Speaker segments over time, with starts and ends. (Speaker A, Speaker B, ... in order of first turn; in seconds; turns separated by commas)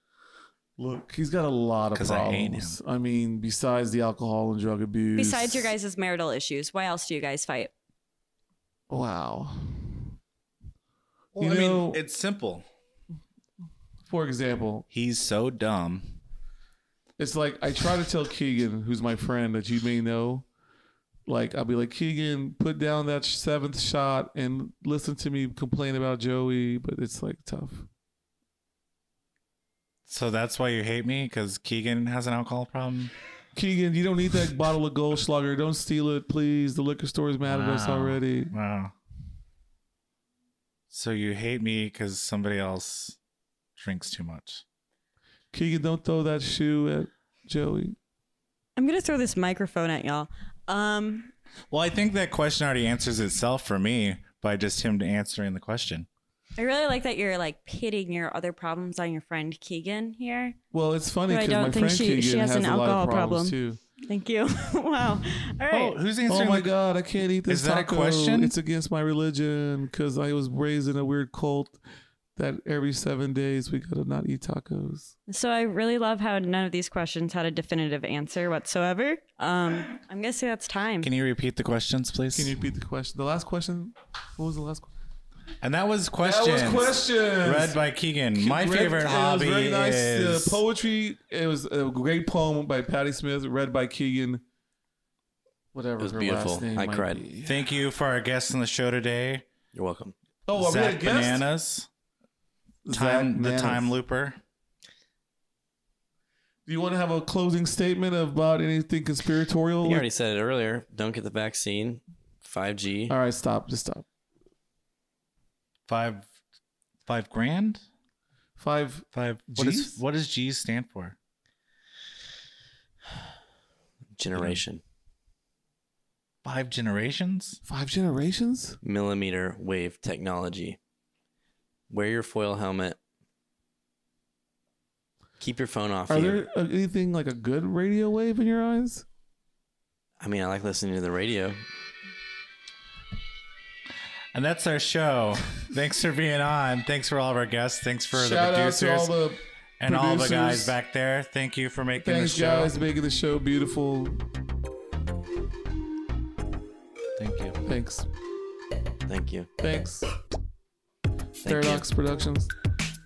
Speaker A: 0.8-5.7, Speaker B: 1.9-2.8, Speaker C: 5.2-7.7, Speaker A: 8.9-10.2, Speaker A: 11.3-12.0, Speaker B: 11.4-12.7, Speaker A: 14.1-14.9, Speaker B: 14.9-16.2, Speaker A: 17.2-20.5, Speaker A: 21.3-27.9, Speaker B: 30.1-33.1, Speaker A: 33.5-38.5, Speaker B: 37.5-38.9, Speaker B: 40.9-43.2, Speaker B: 43.8-44.6, Speaker A: 45.5-48.0, Speaker C: 48.8-51.3, Speaker B: 51.7-56.1, Speaker C: 56.6-60.6, Speaker A: 60.7-63.8, Speaker C: 61.3-66.0, Speaker B: 65.7-66.7, Speaker A: 66.3-71.8, Speaker B: 67.5-68.5, Speaker A: 72.4-75.1, Speaker C: 75.3-81.1, Speaker B: 81.0-82.5, Speaker A: 82.3-84.9, Speaker B: 85.6-90.6, Speaker A: 86.2-87.8, Speaker A: 88.3-94.4, Speaker A: 95.7-97.7, Speaker D: 96.0-97.2, Speaker B: 97.4-99.5, Speaker D: 99.7-100.2, Speaker A: 100.5-101.5, Speaker B: 100.6-101.9, Speaker A: 102.8-103.9, Speaker B: 102.9-104.4, Speaker A: 106.7-110.1, Speaker D: 109.8-113.2, Speaker A: 113.1-114.1, Speaker B: 115.9-116.3, Speaker B: 117.0-117.8, Speaker A: 118.6-120.0, Speaker B: 119.1-121.2, Speaker D: 124.2-124.8, Speaker B: 124.3-124.6, Speaker B: 126.4-127.6, Speaker A: 127.7-128.8, Speaker D: 128.8-130.8, Speaker D: 131.9-133.0, Speaker D: 135.4-136.4, Speaker A: 136.1-139.1, Speaker D: 140.2-141.6, Speaker B: 144.3-149.1, Speaker A: 148.1-150.8, Speaker B: 149.8-152.7, Speaker A: 152.0-154.2, Speaker B: 157.2-157.6, Speaker A: 157.7-158.1, Speaker D: 159.1-159.5, Speaker A: 159.6-160.1, Speaker D: 161.4-161.9, Speaker A: 161.4-162.5